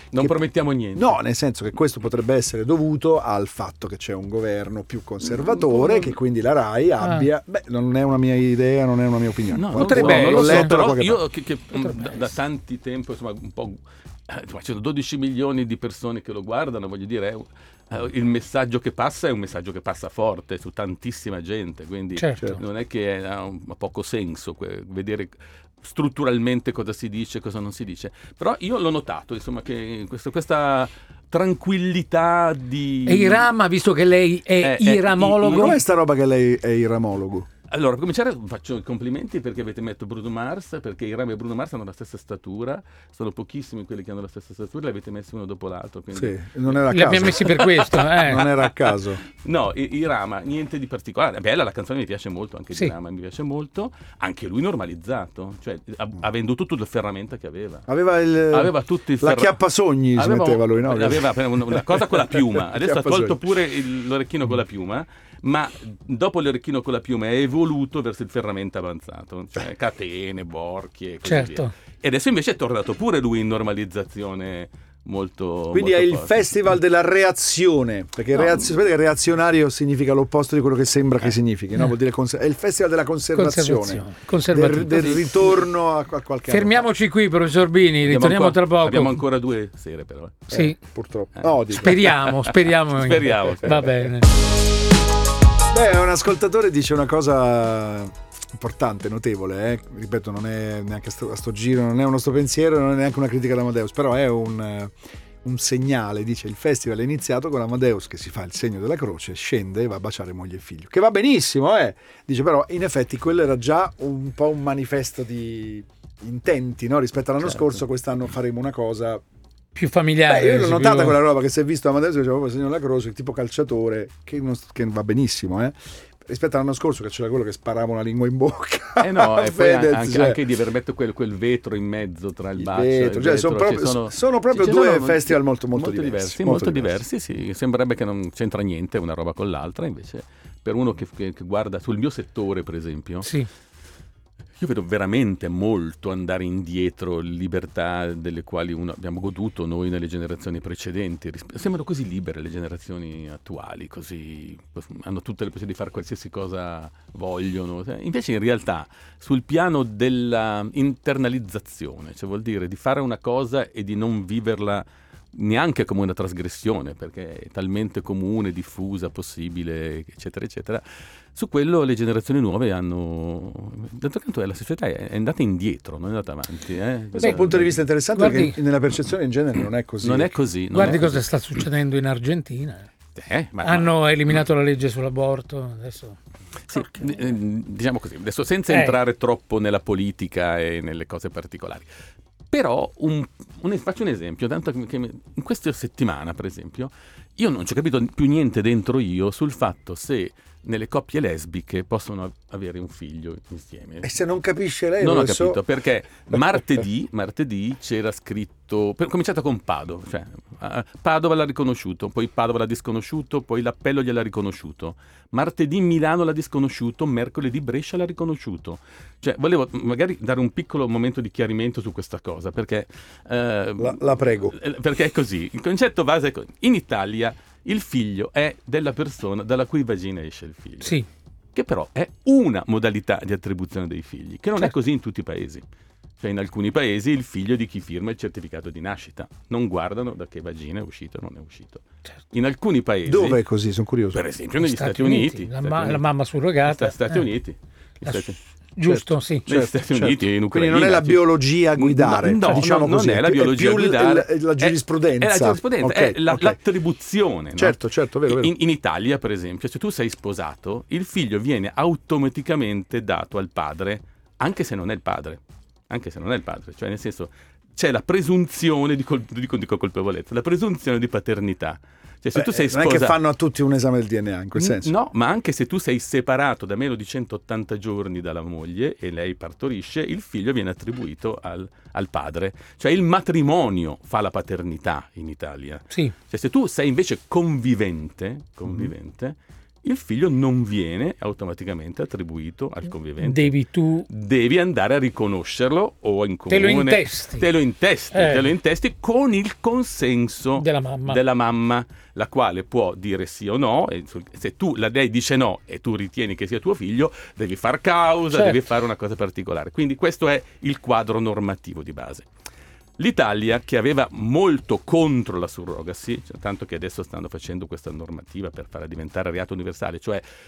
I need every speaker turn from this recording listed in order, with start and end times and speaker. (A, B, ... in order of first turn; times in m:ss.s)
0:00.1-0:01.2 A
0:01.0-0:11.2 B
0:05.3-0:06.2 A
0:07.0-0:07.3 C
0:09.5-0:33.5 A
0:09.8-0:10.8 C
0:11.8-0:12.2 C
0:22.2-0:22.6 C
0:33.1-0:35.8 C
0:34.6-0:35.8 A
0:35.4-0:37.5 B
0:37.7-0:48.6 A
0:46.1-0:47.5 B
0:46.9-0:48.5 C
0:48.2-0:49.2 B
0:49.4-0:57.9 A
0:57.9-1:03.4 B
0:58.5-0:59.6 A
1:00.2-1:16.5 A
1:11.2-1:11.7 C
1:15.7-1:26.9 B
1:18.3-1:18.7 A
1:23.3-1:25.5 C
1:24.9-1:25.2 A
1:26.5-1:29.2 C
1:28.0-1:30.5 A
1:30.5-1:30.8 C
1:30.5-1:32.1 B
1:31.4-1:33.9 A
1:31.7-1:34.3 C
1:35.7-1:59.2 B
1:59.8-2:01.2 C
2:00.3-2:10.4 B
2:09.0-2:23.3 A
2:12.6-2:17.0 B
2:24.6-2:50.8 A
2:51.3-2:57.8 A
2:57.2-3:01.0 B
2:58.2-2:58.6 C
3:00.0-3:01.2 A
3:00.7-3:02.9 C
3:03.2-3:04.0 A
3:03.6-3:06.2 C
3:06.7-3:11.9 A
3:06.7-3:07.2 C
3:08.7-3:09.0 C
3:12.5-3:24.2 A
3:24.0-3:25.6 B
3:25.0-3:51.0 A
3:43.8-3:44.6 B
3:51.5-3:55.6 A
3:56.2-4:03.4 A
4:03.1-4:04.2 B
4:04.1-4:06.0 A
4:04.6-4:07.2 C
4:06.6-4:08.4 A
4:08.8-4:09.5 C
4:08.8-4:16.6 B
4:09.5-4:33.2 A
4:17.6-4:18.5 B
4:32.4-4:34.9 B
4:34.6-4:53.6 A
4:53.2-4:54.1 C
4:54.1-5:12.3 A
4:56.5-4:57.5 C
4:58.1-4:58.5 C
5:00.6-5:01.2 C
5:08.3-5:08.6 C
5:13.0-5:20.2 A